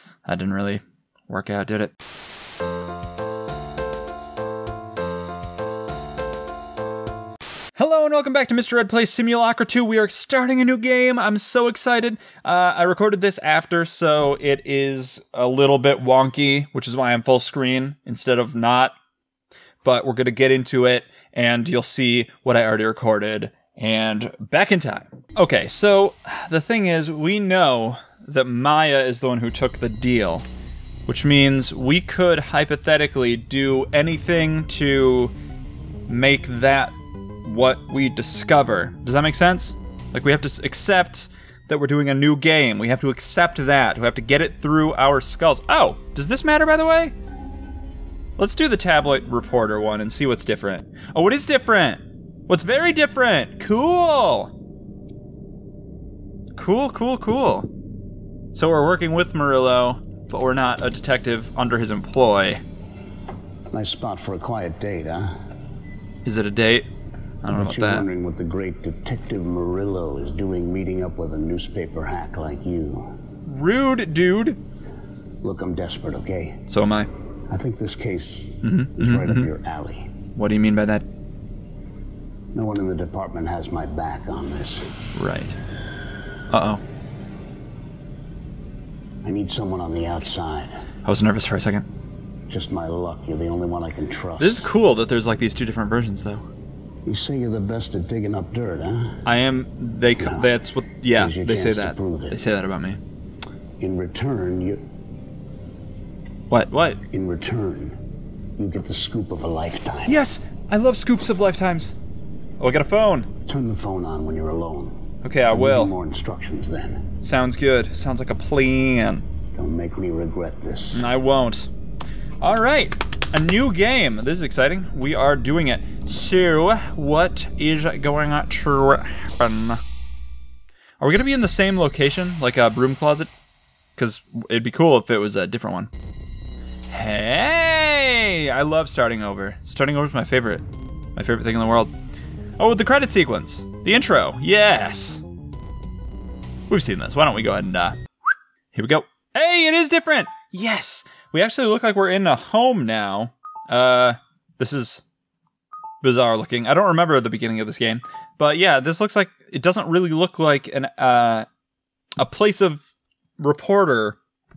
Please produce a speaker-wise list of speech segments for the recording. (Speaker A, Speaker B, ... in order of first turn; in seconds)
Speaker A: 0.2-1.9, 7.8-18.9, 19.8-30.4, 31.1-35.3, 36.1-47.1, 48.4-54.5, 56.5-57.7, 58.5-62.6, 66.2-66.9, 67.4-68.0, 73.4-74.6, 76.7-77.1, 78.6-79.5, 80.3-81.1, 85.1-85.6, 86.5-86.8, 91.0-91.9, 94.4-96.4, 99.2-103.0, 106.5-107.0, 110.0-111.9, 112.6-113.3, 115.2-115.9, 117.2-119.2, 120.9-121.7, 122.4-129.8, 131.0-133.3, 133.9-135.9, 136.9-141.9, 142.6-145.2, 146.7-148.0, 148.7-155.0, 156.0-161.5, 162.2-162.8, 163.4-164.2
Speaker B: 63.7-65.4, 67.5-73.2, 75.4-76.7, 77.5-80.1, 82.5-85.0, 89.2-90.8, 92.5-94.6, 97.0-99.2, 100.2-100.5, 101.1-102.4, 103.8-104.8, 107.0-108.0, 108.6-110.2, 113.5-117.1, 119.5-121.0